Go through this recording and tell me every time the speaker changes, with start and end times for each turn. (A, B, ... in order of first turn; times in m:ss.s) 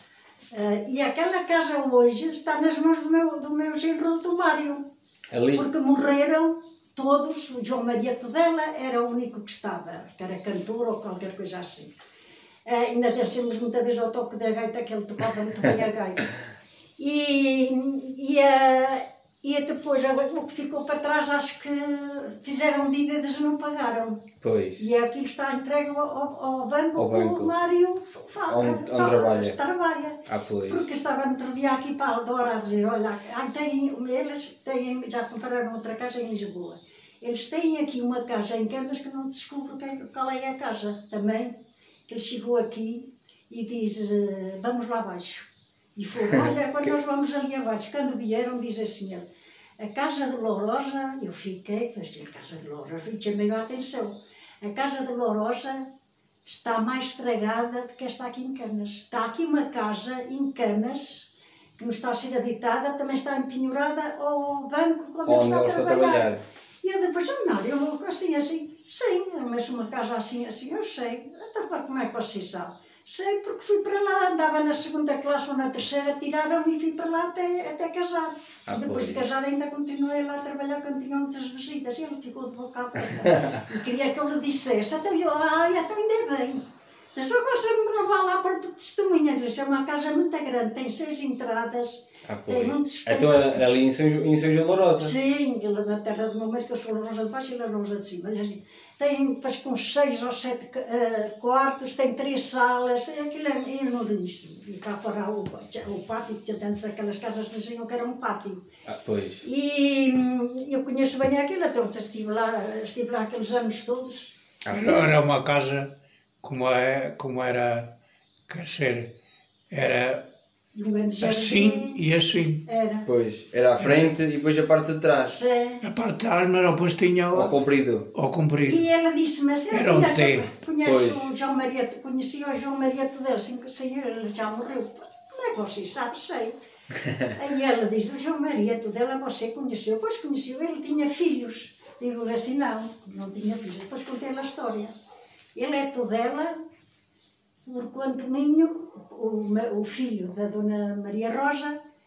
0:00.5-0:04.8 A
0:05.3-0:05.7 B
0:05.5-0:11.9 A
0:12.6-0:16.3 A
0:17.0-0:24.2 A
0:24.4-0:24.8 B
0:24.8-0:41.6 A
0:27.0-0:27.5 B
0:28.5-0:29.6 B
0:30.3-0:30.8 B
0:42.1-0:49.2 A
0:49.8-0:55.8 A
0:56.4-1:06.3 A
1:05.2-1:06.4 B
1:06.8-1:33.6 A
1:18.7-1:19.2 B
1:32.2-1:35.1 B
1:35.0-1:48.6 A
1:48.8-1:49.4 B
1:49.4-1:54.3 A
1:54.6-1:55.2 B
1:54.7-1:55.9 C
1:56.4-1:57.9 C
1:58.5-1:59.1 C
1:59.7-2:00.2 C
2:00.7-2:02.0 A
2:01.2-2:02.6 C
2:02.6-2:03.1 A
2:03.0-2:05.4 B
2:05.2-2:05.8 A
2:05.8-2:07.5 C
2:07.3-2:08.1 B
2:08.1-2:08.9 C
2:08.6-2:16.5 A
2:09.7-2:10.5 C
2:10.8-2:11.3 B
2:17.2-2:24.9 A
2:25.5-2:26.6 A
2:27.6-2:31.8 A